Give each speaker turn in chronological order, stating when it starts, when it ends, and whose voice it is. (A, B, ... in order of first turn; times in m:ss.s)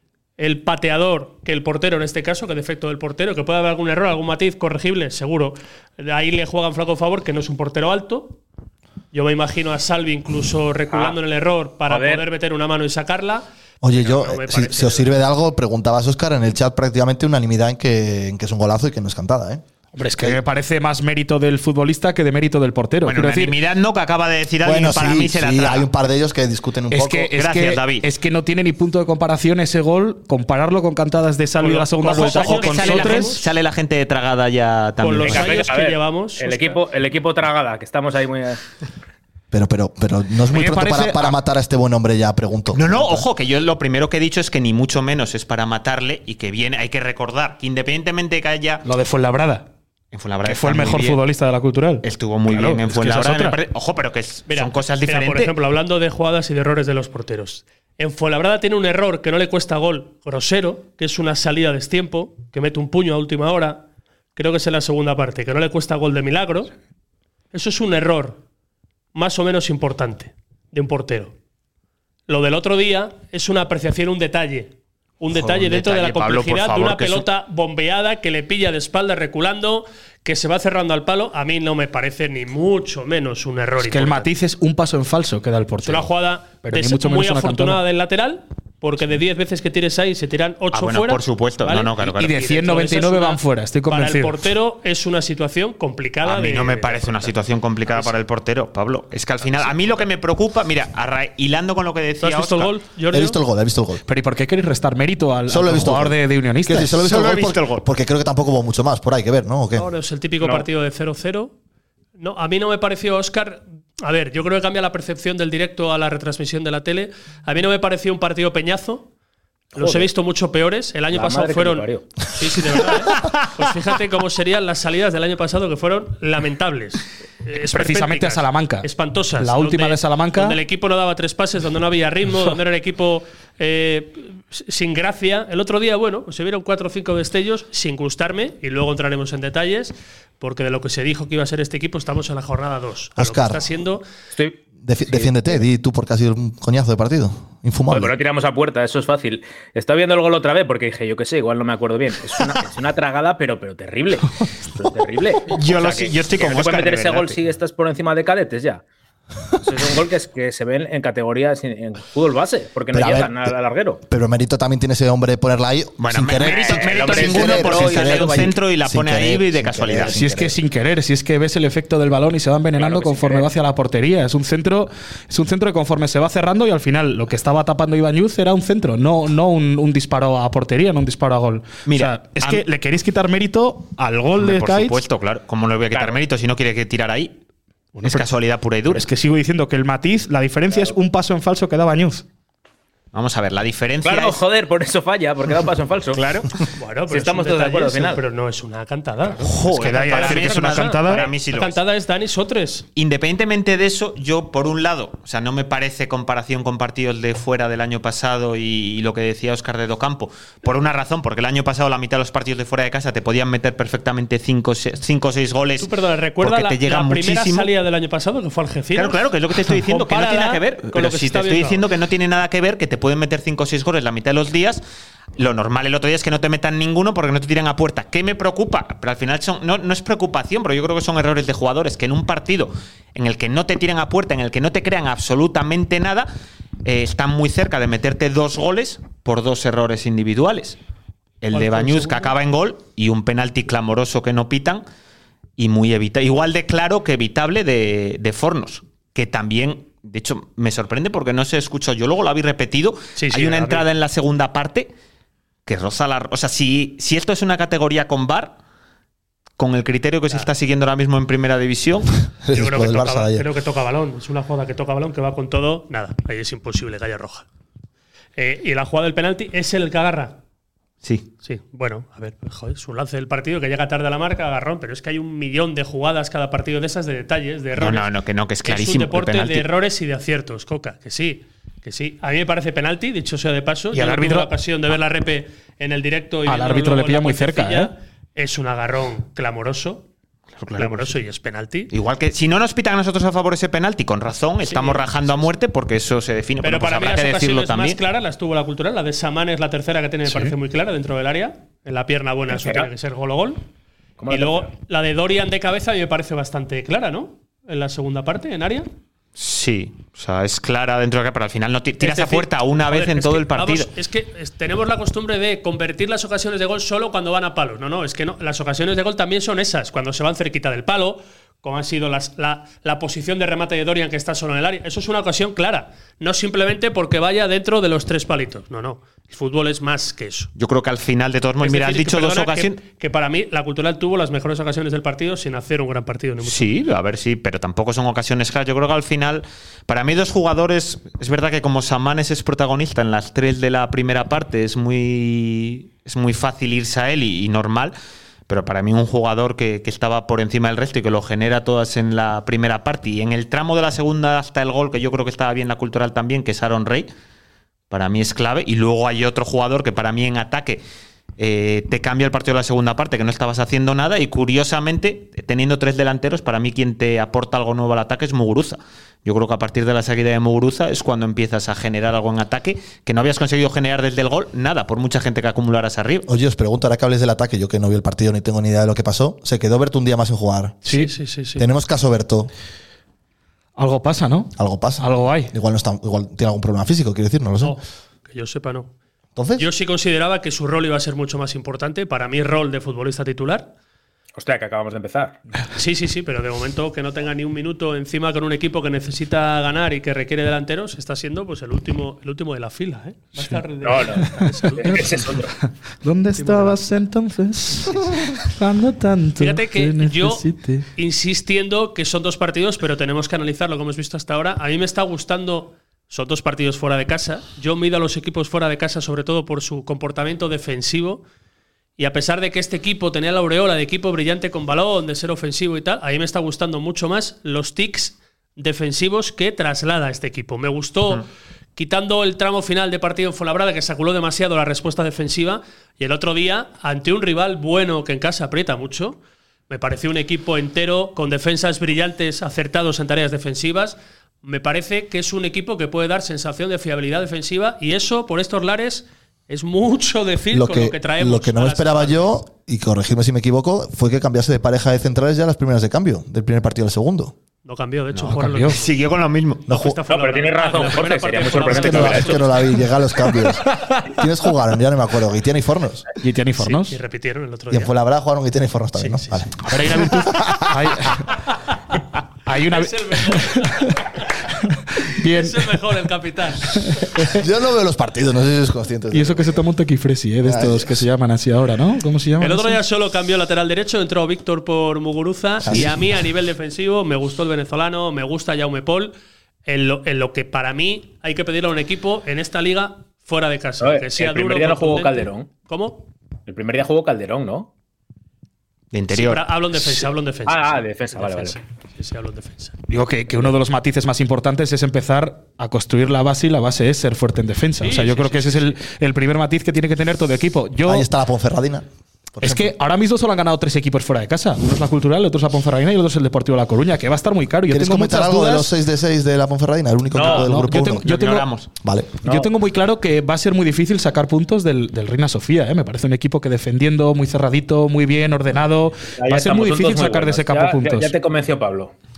0:00.4-0:08.4 A
0:09.1-0:15.2 A
0:10.9-0:11.2 B
0:11.9-0:12.2 B
0:13.8-0:19.6 C
0:19.9-0:23.6 D
0:23.0-0:25.9 E
0:24.6-0:27.3 C
0:26.9-0:33.4 D
0:27.3-0:28.1 E
0:31.6-0:33.5 A
0:32.0-0:35.6 E
0:35.0-0:36.8 A
0:35.2-0:38.6 B
0:39.5-0:43.3 C
0:40.5-0:41.4 D
0:42.7-0:48.8 E
0:48.8-0:49.7 D
0:50.1-0:51.2 E
0:50.4-0:53.6 D
0:52.0-0:55.5 E
0:54.5-1:06.7 A
1:07.5-1:08.4 A
1:09.1-1:11.3 A
1:12.3-1:24.3 A
1:15.3-1:17.2 E
1:23.8-1:27.8 D
1:25.8-1:37.3 A
1:30.7-1:32.5 E
1:32.1-1:34.4 D
1:36.2-1:42.7 E
1:37.9-1:38.1 A
1:42.2-1:43.4 A
1:43.1-1:44.0 C
1:44.1-1:47.1 D
1:45.5-1:49.9 C
1:47.0-1:47.8 E
1:49.8-1:51.5 A
1:50.4-1:50.6 B
1:52.2-1:59.1 A
1:59.7-2:24.0 A
1:59.7-2:00.1 B
2:01.1-2:02.0 B
2:07.6-2:10.6 D
2:23.2-2:23.6 C
2:24.3-2:25.6 B
2:24.8-2:28.2 C
2:27.9-2:38.8 B
2:35.5-2:37.4 E
2:39.6-2:44.0 B
2:42.9-2:43.6 C
2:44.1-2:50.5 C
2:46.0-2:50.2 E
2:46.4-2:48.5 B
2:50.0-2:50.4 B
2:50.0-3:05.0 D
2:52.7-2:53.5 B
3:01.9-3:02.6 E
3:04.4-3:07.4 E
3:05.9-3:06.2 B
3:08.0-3:08.3 D
3:08.0-3:09.0 E
3:08.9-3:12.2 D
3:13.1-3:14.4 E
3:14.0-3:16.2 B
3:16.1-3:16.5 D
3:16.8-3:22.8 A
3:17.1-3:18.2 B
3:19.4-3:21.8 E
3:19.6-3:21.3 D
3:23.0-3:37.7 E
3:35.8-3:41.8 A
3:38.9-3:44.8 E
3:45.4-3:56.3 E
3:56.8-4:00.8 E
4:01.4-4:04.8 E
4:01.5-4:02.3 A
4:05.6-4:14.9 E
4:13.2-4:13.9 A
4:15.6-4:18.6 E
4:19.6-4:22.1 E
4:22.4-4:23.5 C
4:22.5-4:27.4 A
4:28.4-4:30.4 A
4:31.0-4:31.3 E
4:31.4-4:38.1 A
4:37.7-4:39.7 E
4:38.6-4:50.1 A
4:43.9-4:44.5 D
4:46.4-4:47.9 D
4:50.6-4:51.2 E
4:50.8-4:51.9 A
4:51.9-4:58.0 E
4:54.6-4:55.5 A
4:56.6-5:03.6 A
5:00.3-5:00.5 D
5:02.5-5:02.9 B
5:04.2-5:04.7 B
5:04.3-5:08.9 A
5:09.4-5:13.9 E
5:12.0-5:30.5 A
5:30.6-5:32.8 E
5:31.6-5:36.7 A
5:36.4-5:47.9 E
5:48.5-5:57.1 E
5:57.9-6:00.8 E
6:01.4-6:16.3 E
6:16.2-6:20.8 C
6:20.8-6:21.6 A
6:21.6-6:22.5 C
6:23.8-6:25.5 D
6:24.6-6:27.8 C
6:27.6-6:28.9 A
6:29.4-6:29.7 C
6:29.6-6:33.7 A
6:34.3-6:35.4 B
6:35.7-6:45.2 A
6:43.8-6:45.5 B
6:44.4-6:50.9 D
6:46.3-6:46.8 A
6:49.4-7:01.2 A
7:02.0-7:11.2 A
7:11.8-7:19.2 A
7:19.7-7:32.3 A
7:30.5-7:37.3 C
7:37.6-7:39.1 A
7:38.2-7:38.8 D
7:38.7-7:39.7 E
7:39.6-7:40.0 C
7:39.7-7:42.8 A
7:40.1-7:42.5 B
7:41.5-7:42.2 D
7:41.9-7:46.1 C
7:46.2-7:47.0 D
7:46.6-7:47.9 A
7:47.7-7:51.0 C
7:49.0-7:49.5 A
7:49.6-7:51.4 D
7:52.4-7:55.8 D
7:52.6-7:54.5 A
7:55.2-7:57.1 A
7:56.7-7:57.4 D
7:57.2-7:59.6 C
7:59.1-8:02.8 D
8:00.4-8:01.0 C
8:02.4-8:09.1 A
8:05.6-8:06.0 C
8:09.6-8:16.1 A
8:13.8-8:15.5 B
8:16.5-8:17.7 B
8:18.9-8:19.5 E
8:19.1-8:22.8 A
8:20.5-8:21.6 B
8:22.9-8:31.1 D
8:27.8-8:28.8 A
8:30.8-8:32.7 C
8:32.4-8:38.7 D
8:37.7-8:41.1 C
8:40.1-8:40.5 B
8:40.2-8:41.5 D
8:40.7-8:41.7 E
8:41.8-8:42.2 C
8:42.2-8:51.1 D
8:42.2-8:42.5 B
8:49.2-8:51.9 B